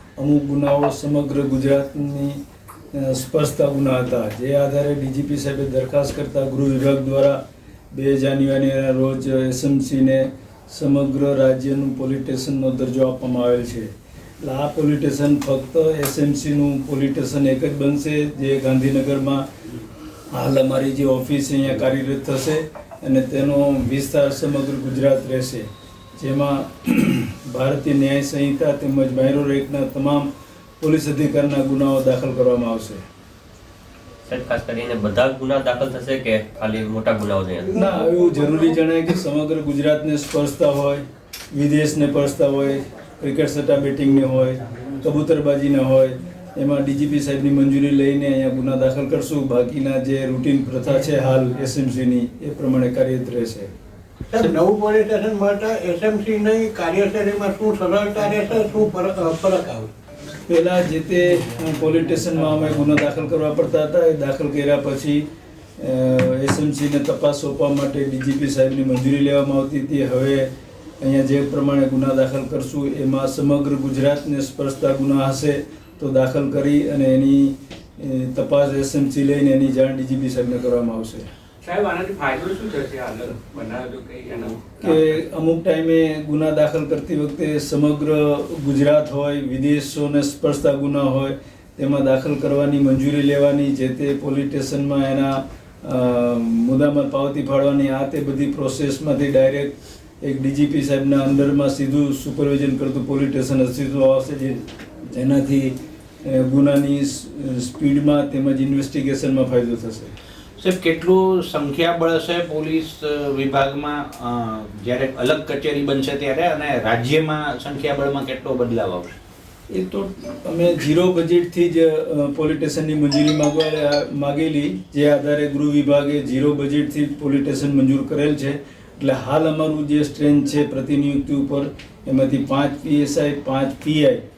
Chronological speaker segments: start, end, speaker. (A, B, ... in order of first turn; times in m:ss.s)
0:00.2-0:02.4 A
0:02.9-0:07.4 A
0:07.9-0:13.9 A
0:14.4-0:19.4 A
0:20.3-0:25.7 A
0:26.2-0:30.3 A
0:30.8-0:33.0 A
0:34.3-0:37.7 B
0:37.7-0:53.7 A
0:54.3-0:59.9 C
1:00.5-1:05.2 A
1:05.8-1:10.5 A
1:11.0-1:21.3 A
1:21.6-1:25.1 D
1:24.8-1:50.1 A
1:50.6-1:59.2 E
1:59.7-2:14.2 A